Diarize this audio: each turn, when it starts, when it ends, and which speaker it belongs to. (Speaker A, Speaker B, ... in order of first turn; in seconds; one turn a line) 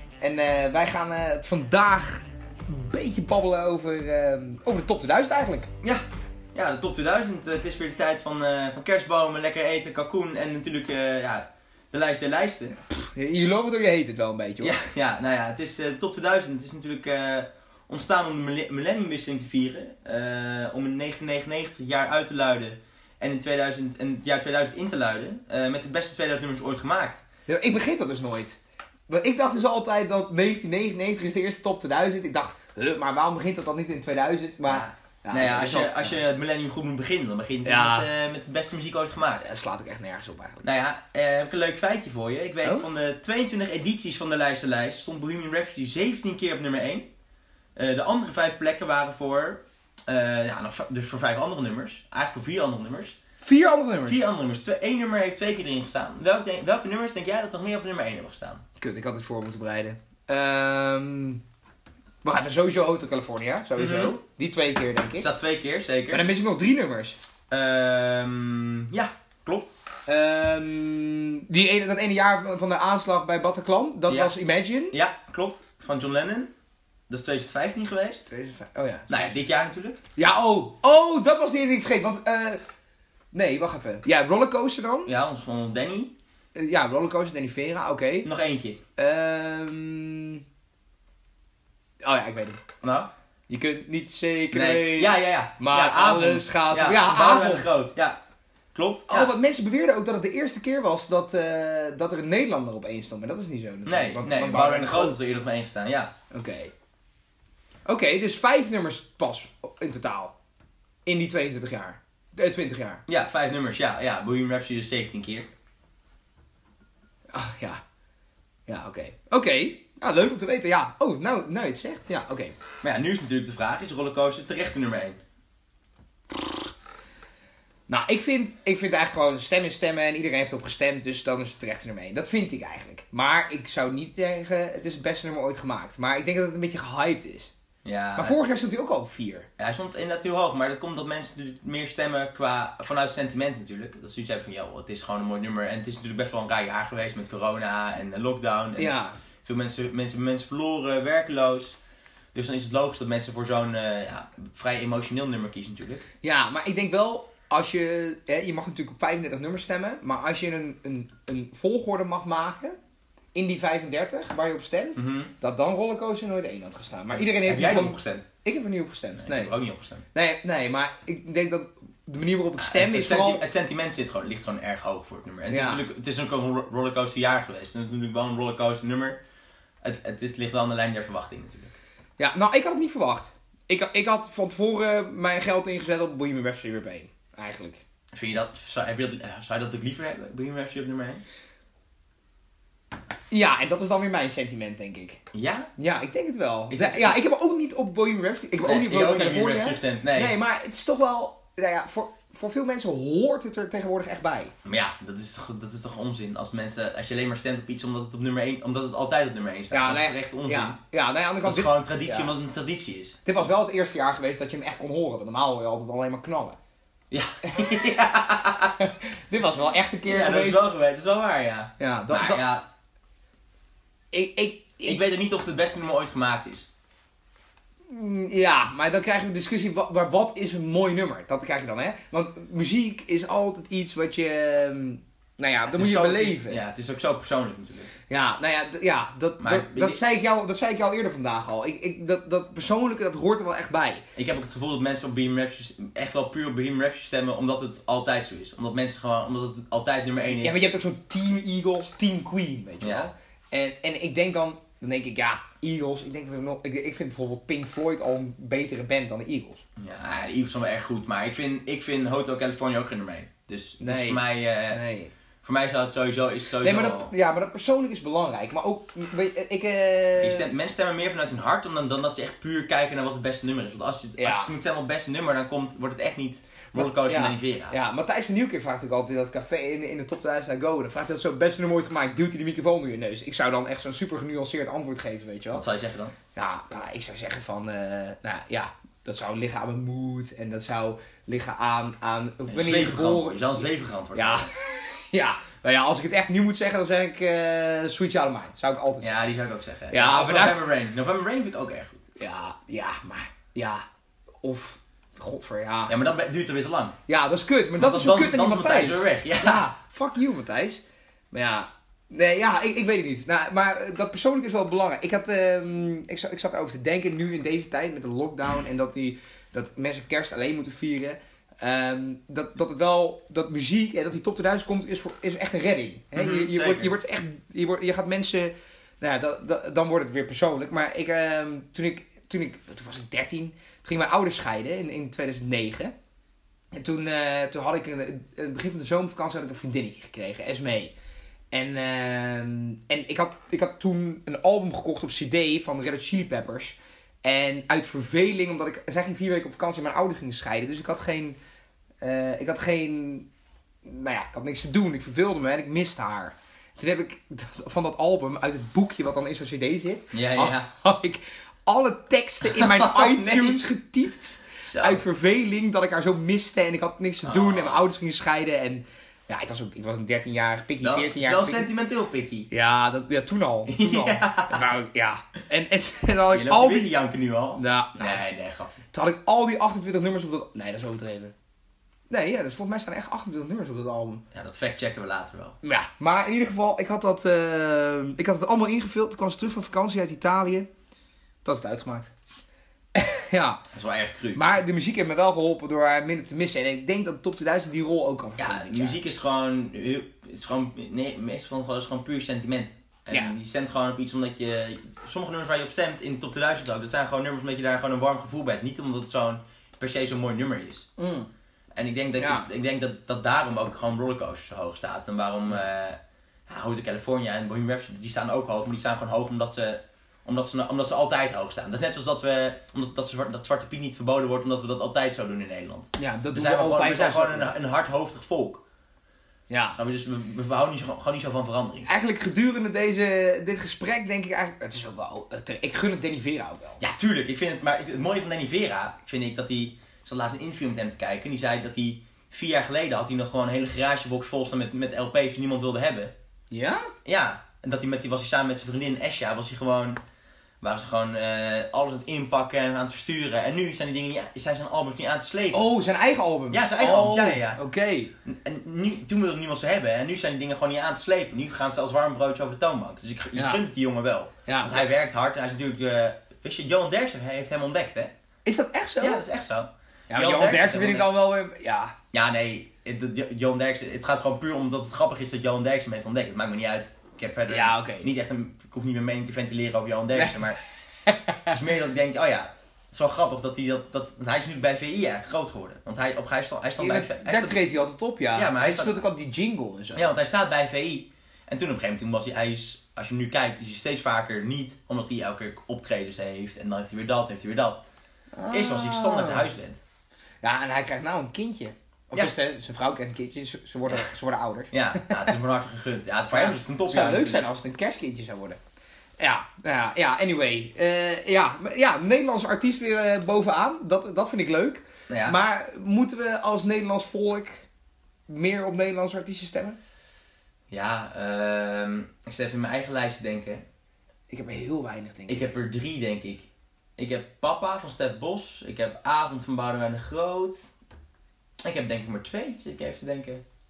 Speaker A: 0.2-5.7
Speaker B: 5.8-12.8
Speaker A: 12.9-14.8
Speaker B: 14.6-27.2
Speaker A: 27.5-28.6
Speaker A: 29.1-36.2
Speaker B: 34.7-39.4
Speaker A: 37.6-38.1
Speaker A: 39.4-40.6
Speaker B: 40.6-47.1
Speaker B: 47.8-53.1
Speaker A: 53.4-54.2
Speaker B: 54.0-58.6
Speaker A: 58.8-61.4
Speaker A: 62.2-65.3
Speaker B: 63.8-64.2
Speaker B: 65.2-66.3
Speaker A: 66.1-67.2
Speaker B: 67.5-69.7
Speaker A: 70.1-74.9
Speaker B: 74.1-74.3
Speaker B: 74.9-76.5
Speaker B: 77.1-78.3
Speaker A: 78.3-79.3
Speaker B: 79.1-80.0
Speaker A: 80.2-82.6
Speaker A: 83.3-85.1
Speaker B: 85.0-86.1
Speaker A: 86.5-88.3
Speaker B: 88.2-88.8
Speaker A: 89.0-90.4
Speaker A: 92.0-92.6
Speaker B: 92.8-93.1
Speaker A: 93.5-97.7
Speaker B: 94.5-98.2
Speaker B: 98.7-99.3
Speaker A: 99.1-105.2
Speaker B: 103.8-106.1
Speaker A: 106.3-106.7
Speaker A: 107.8-110.3
Speaker A: 111.0-113.0
Speaker B: 113.1-115.5
Speaker A: 117.3-117.8
Speaker A: 118.7-122.5
Speaker B: 122.8-125.2
Speaker A: 127.9-137.5
Speaker B: 137.8-138.4
Speaker A: 138.2-139.5
Speaker B: 139.6-151.8
Speaker A: 148.8-149.2
Speaker B: 152.3-156.0
Speaker A: 156.2-162.8
Speaker A: 163.3-169.5
Speaker B: 164.9-165.3
Speaker B: 167.1-168.3
Speaker B: 169.2-170.0
Speaker A: 170.1-173.4
Speaker B: 172.6-179.2
Speaker A: 175.5-175.8
Speaker B: 179.8-181.8
Speaker A: 182.2-187.8
Speaker B: 188.1-191.2
Speaker A: 193.3-195.2
Speaker B: 195.3-195.7
Speaker A: 195.8-204.5
Speaker B: 196.7-197.2
Speaker B: 198.6-200.3
Speaker B: 204.6-210.8
Speaker A: 209.7-212.3
Speaker B: 211.4-213.2
Speaker A: 213.2-216.6
Speaker B: 217.1-218.8
Speaker A: 218.8-220.7
Speaker B: 220.1-222.7
Speaker A: 221.8-222.4
Speaker A: 224.1-225.0
Speaker B: 224.8-226.7
Speaker A: 227.9-236.6
Speaker B: 235.7-237.9
Speaker A: 238.1-244.0
Speaker B: 239.4-240.0
Speaker B: 244.2-250.6
Speaker A: 250.4-259.6
Speaker B: 252.8-253.1
Speaker B: 259.8-264.8
Speaker A: 263.8-265.1
Speaker B: 265.4-267.1
Speaker A: 266.6-270.5
Speaker B: 270.2-277.8
Speaker A: 274.2-274.5
Speaker A: 276.7-285.6
Speaker B: 285.5-286.1
Speaker A: 286.3-299.2
Speaker B: 292.5-294.5
Speaker B: 299.0-302.0
Speaker A: 299.9-300.6
Speaker A: 302.2-303.8
Speaker A: 304.4-305.9
Speaker B: 305.9-306.9
Speaker A: 307.1-335.9
Speaker B: 307.8-309.7
Speaker B: 326.1-326.9
Speaker A: 336.7-340.9
Speaker A: 341.5-351.4
Speaker A: 352.0-353.3
Speaker A: 353.8-371.7
Speaker B: 360.1-360.7
Speaker B: 362.4-363.6
Speaker B: 364.6-365.0
Speaker B: 367.2-367.9
Speaker B: 370.8-372.5
Speaker A: 372.5-376.9
Speaker B: 373.7-374.6
Speaker B: 376.3-378.8
Speaker A: 377.6-378.2
Speaker A: 378.9-381.3
Speaker A: 382.1-384.2
Speaker B: 384.3-385.6
Speaker A: 385.6-390.7
Speaker A: 391.4-392.1
Speaker A: 392.9-393.6
Speaker B: 393.7-394.5
Speaker A: 394.3-399.0
Speaker B: 398.4-410.9
Speaker A: 411.0-411.3
Speaker B: 411.7-428.6
Speaker A: 412.2-412.5
Speaker A: 426.0-427.5
Speaker A: 429.5-429.8
Speaker B: 429.8-431.9
Speaker A: 431.8-436.8
Speaker B: 436.8-446.1
Speaker A: 446.5-446.9
Speaker B: 447.0-450.0
Speaker B: 450.6-455.6
Speaker A: 455.5-458.1
Speaker B: 456.5-457.6
Speaker B: 458.2-468.1
Speaker A: 463.3-463.6
Speaker A: 464.4-464.8
Speaker A: 468.4-469.2
Speaker B: 469.0-471.1
Speaker A: 470.1-471.9
Speaker B: 472.1-480.6
Speaker A: 477.5-478.1
Speaker A: 480.1-480.4
Speaker A: 481.0-481.6
Speaker B: 481.5-487.6
Speaker A: 486.8-490.1
Speaker B: 488.3-489.0
Speaker B: 489.9-497.8
Speaker A: 498.3-499.5
Speaker B: 498.5-499.8
Speaker A: 500.4-505.3
Speaker B: 504.7-507.4
Speaker A: 506.3-508.6
Speaker A: 509.2-517.7
Speaker B: 515.1-515.4
Speaker A: 518.3-519.8
Speaker B: 520.7-523.6
Speaker A: 524.3-525.5
Speaker B: 525.3-530.7
Speaker B: 531.6-533.4